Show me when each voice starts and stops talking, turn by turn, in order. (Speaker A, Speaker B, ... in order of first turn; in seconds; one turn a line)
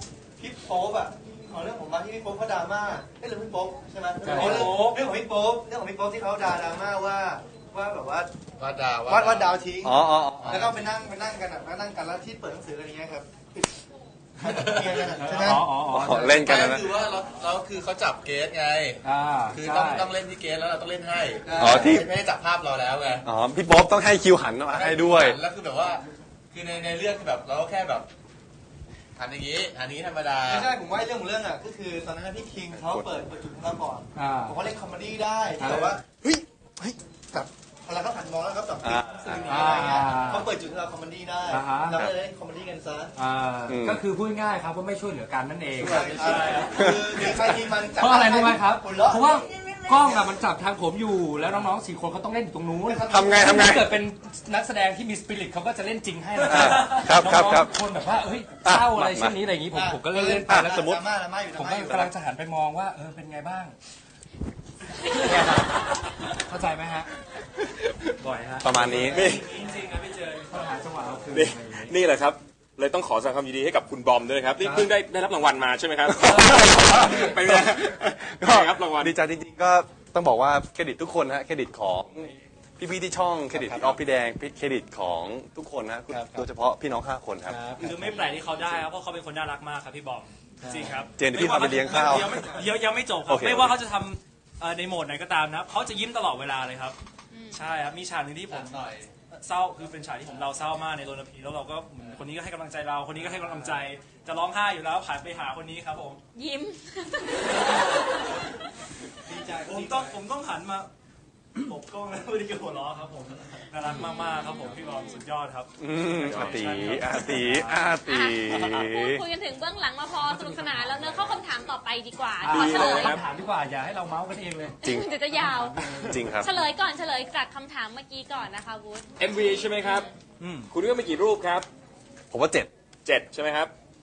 Speaker A: 0.4-8.3
Speaker B: 4.2-4.8
Speaker C: 4.3-5.0
Speaker D: 8.6-9.6
Speaker A: 9.1-13.7
Speaker E: 9.8-10.6
Speaker D: 10.3-10.8
Speaker A: 14.4-15.6
Speaker D: 14.5-15.3
Speaker B: 15.2-16.7
Speaker E: 15.9-16.9
Speaker D: 16.3-23.2
Speaker B: 19.0-20.1
Speaker A: 21.4-22.1
Speaker E: 21.6-22.1
Speaker E: 23.2-25.4
Speaker D: 24.7-28.1
Speaker D: 29.1-30.7
Speaker A: 30.4-43.1
Speaker E: 32.8-33.1
Speaker B: 34.1-34.6
Speaker B: 35.6-36.0
Speaker E: 38.8-39.7
Speaker B: 39.5-40.5
Speaker B: 41.5-42.0
Speaker B: 43.1-46.3
Speaker E: 43.7-44.0
Speaker A: 45.8-50.4
Speaker D: 46.0-46.4
Speaker C: 46.1-46.8
Speaker E: 46.7-47.2
Speaker B: 48.0-60.9
Speaker A: 52.8-53.6
Speaker E: 53.1-53.9
Speaker E: 56.4-57.7
Speaker E: 58.6-59.4
Speaker A: 59.7-62.1
Speaker E: 60.5-61.0
Speaker B: 61.5-63.7
Speaker B: 65.1-65.7
Speaker B: 66.4-67.1
Speaker B: 68.1-69.4
Speaker E: 68.6-69.5
Speaker C: 69.1-70.4
Speaker B: 70.5-71.9
Speaker F: 71.3-79.1
Speaker B: 74.6-74.9
Speaker E: 76.1-87.7
Speaker B: 83.5-84.0
Speaker B: 86.1-86.5
Speaker B: 87.5-88.2
Speaker C: 87.8-97.0
Speaker B: 90.6-91.0
Speaker E: 91.2-92.5
Speaker E: 93.3-93.7
Speaker G: 97.3-97.6
Speaker C: 97.5-98.9
Speaker D: 98.5-99.1
Speaker C: 99.4-106.2
Speaker G: 106.3-108.4
Speaker A: 109.2-110.2
Speaker C: 109.6-110.9
Speaker C: 111.6-117.8
Speaker G: 113.8-115.2
Speaker E: 115.8-119.2
Speaker G: 118.0-123.2
Speaker B: 120.2-121.4
Speaker B: 122.4-124.8
Speaker F: 122.6-123.2
Speaker C: 122.6-122.9
Speaker E: 124.8-125.1
Speaker G: 124.8-125.8
Speaker B: 125.3-126.4
Speaker E: 126.0-126.5
Speaker G: 126.3-129.1
Speaker F: 129.2-130.1
Speaker G: 129.8-130.1
Speaker C: 130.4-131.0
Speaker F: 130.7-131.7
Speaker E: 132.3-132.7
Speaker F: 133.0-133.7